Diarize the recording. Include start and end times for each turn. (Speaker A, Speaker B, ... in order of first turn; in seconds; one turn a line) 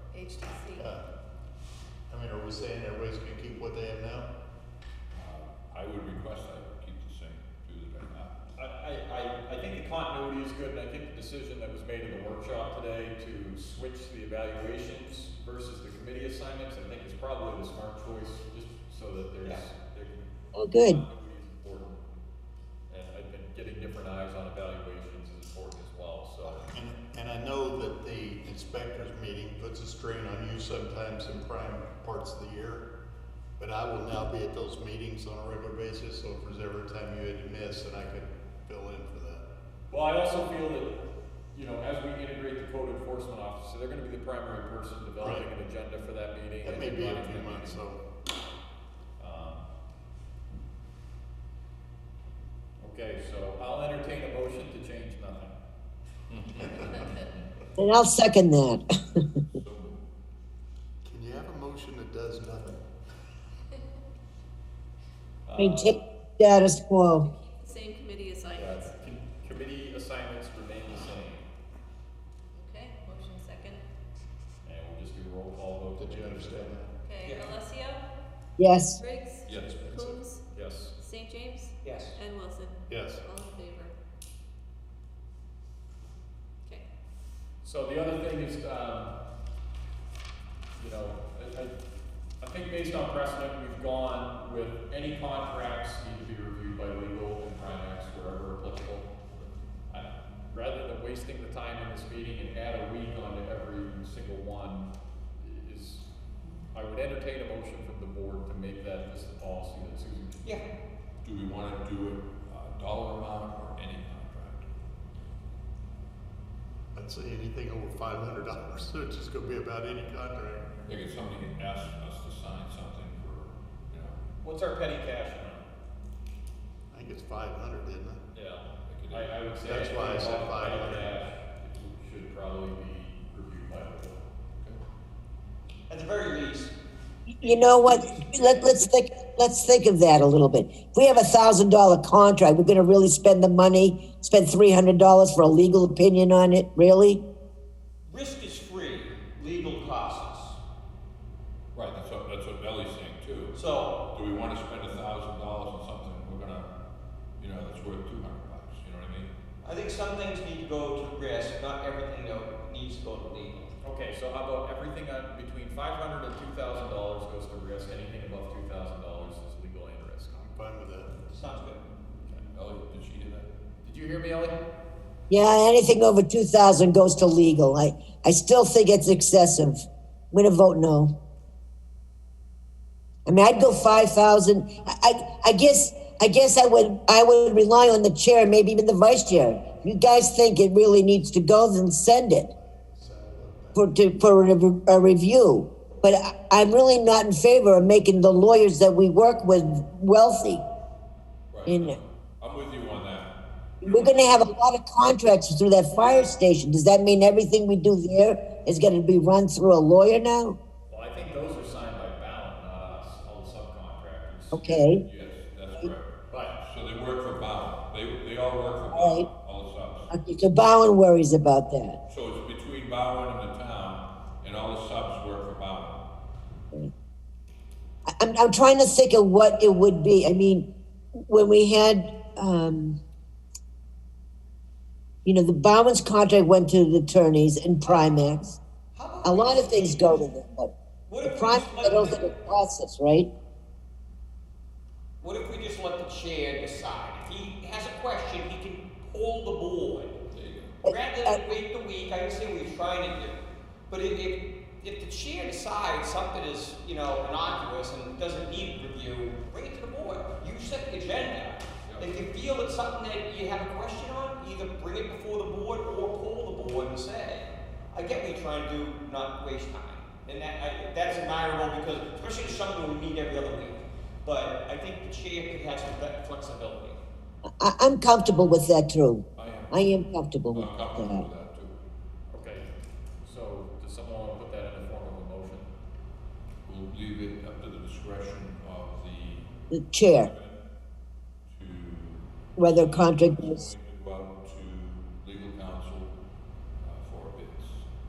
Speaker A: 0.1-0.9
Speaker B: 0.7-1.1
Speaker B: 2.1-4.3
Speaker C: 5.1-8.3
Speaker D: 8.5-22.0
Speaker E: 20.5-21.0
Speaker D: 22.9-26.6
Speaker B: 26.4-32.9
Speaker B: 33.6-39.4
Speaker D: 39.9-41.0
Speaker D: 41.5-47.8
Speaker B: 45.2-45.5
Speaker B: 46.6-48.0
Speaker D: 49.2-49.6
Speaker D: 52.8-55.5
Speaker C: 56.3-56.8
Speaker D: 56.7-57.1
Speaker E: 57.8-59.2
Speaker C: 59.5-60.0
Speaker B: 61.0-62.8
Speaker D: 65.4-66.0
Speaker E: 65.5-67.3
Speaker A: 67.2-68.9
Speaker D: 68.5-71.4
Speaker A: 72.5-73.8
Speaker D: 74.6-76.8
Speaker B: 76.0-76.9
Speaker A: 77.0-78.0
Speaker F: 77.2-77.5
Speaker E: 78.6-79.0
Speaker A: 78.9-80.4
Speaker C: 79.5-80.0
Speaker D: 80.5-80.9
Speaker A: 81.0-83.9
Speaker F: 81.8-82.2
Speaker B: 82.9-83.2
Speaker D: 87.6-89.1
Speaker D: 90.8-91.7
Speaker D: 92.4-99.1
Speaker D: 99.9-106.0
Speaker D: 106.7-110.6
Speaker C: 111.2-114.7
Speaker B: 116.9-120.7
Speaker C: 120.9-124.2
Speaker D: 124.4-125.7
Speaker B: 126.9-128.2
Speaker D: 128.3-134.2
Speaker C: 128.8-129.3
Speaker B: 129.6-131.2
Speaker F: 135.9-136.7
Speaker E: 137.3-147.2
Speaker F: 137.4-138.7
Speaker F: 148.1-150.6
Speaker C: 151.7-153.6
Speaker F: 153.5-154.0
Speaker C: 154.1-156.7
Speaker C: 157.4-159.3
Speaker F: 159.6-163.7
Speaker D: 163.8-170.3
Speaker B: 170.3-171.1
Speaker F: 171.3-171.8
Speaker C: 172.5-173.5
Speaker D: 173.8-174.6
Speaker E: 175.3-181.1
Speaker E: 183.2-192.5
Speaker B: 192.5-193.9
Speaker E: 193.7-200.6
Speaker C: 201.5-203.3
Speaker E: 201.7-202.0
Speaker E: 203.8-210.6
Speaker D: 210.9-215.3
Speaker E: 214.5-215.0
Speaker C: 214.9-220.1
Speaker D: 216.3-216.6
Speaker E: 218.9-219.3
Speaker E: 220.1-222.0
Speaker C: 222.1-226.0
Speaker E: 228.2-233.0
Speaker E: 235.2-238.6
Speaker F: 238.9-240.2
Speaker E: 239.2-243.3
Speaker F: 241.1-242.4
Speaker F: 245.2-250.2
Speaker C: 250.3-250.8
Speaker F: 250.8-253.4
Speaker E: 250.8-251.4
Speaker F: 253.9-277.0
Speaker C: 261.9-262.1
Speaker E: 277.6-281.2
Speaker C: 279.4-281.8
Speaker D: 282.3-282.7
Speaker D: 283.2-285.7
Speaker C: 286.6-289.5
Speaker E: 289.7-290.3
Speaker C: 290.0-290.6
Speaker C: 291.5-296.1
Speaker E: 292.6-293.6
Speaker C: 296.8-297.9